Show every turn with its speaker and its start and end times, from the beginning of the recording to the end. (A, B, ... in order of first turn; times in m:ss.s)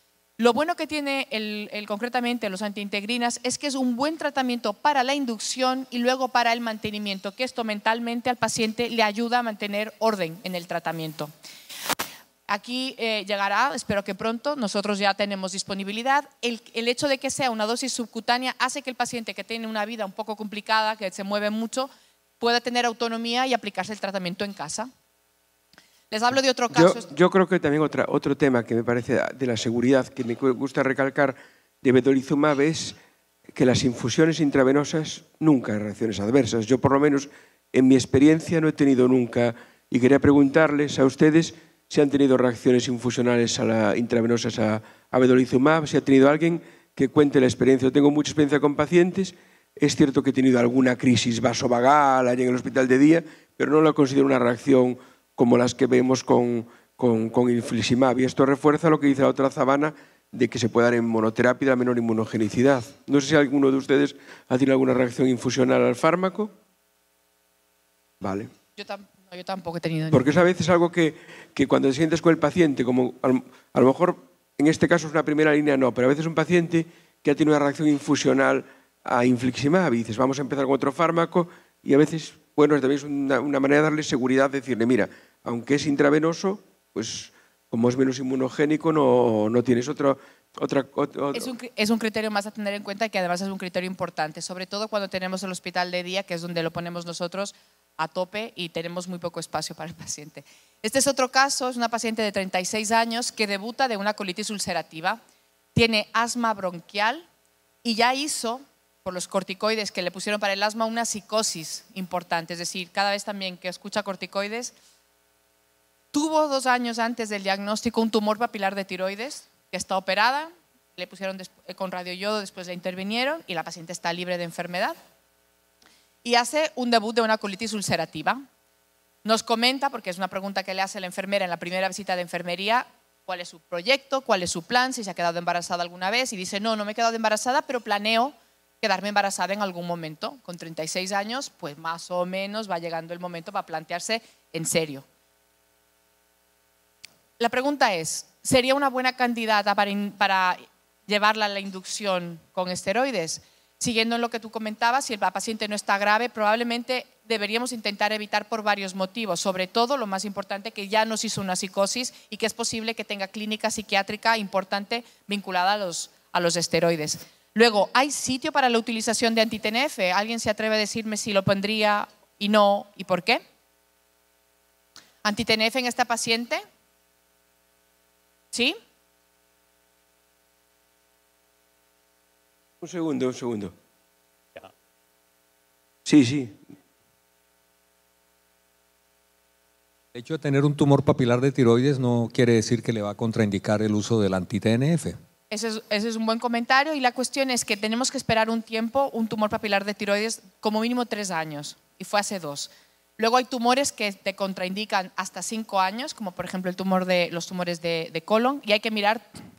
0:00.4-0:11.3 A
0:12.5-0:24.9 A
0:26.1-0:27.1 A
0:26.7-0:33.0 B
0:33.5-1:06.5 B
1:08.2-1:08.5 B
1:08.8-1:10.2 A
1:10.1-1:31.5 B
1:31.3-1:45.2 A
1:45.7-1:47.3 A
1:47.8-1:54.7 A
1:56.1-2:05.0 A
2:06.2-2:08.4 A
2:09.2-2:25.0 A
2:27.4-2:53.4 A
2:55.2-2:56.6 A
2:58.5-2:58.8 A
3:02.8-3:03.8 B
3:06.0-3:06.6 B
3:10.2-3:15.2 C
3:15.5-3:29.3 A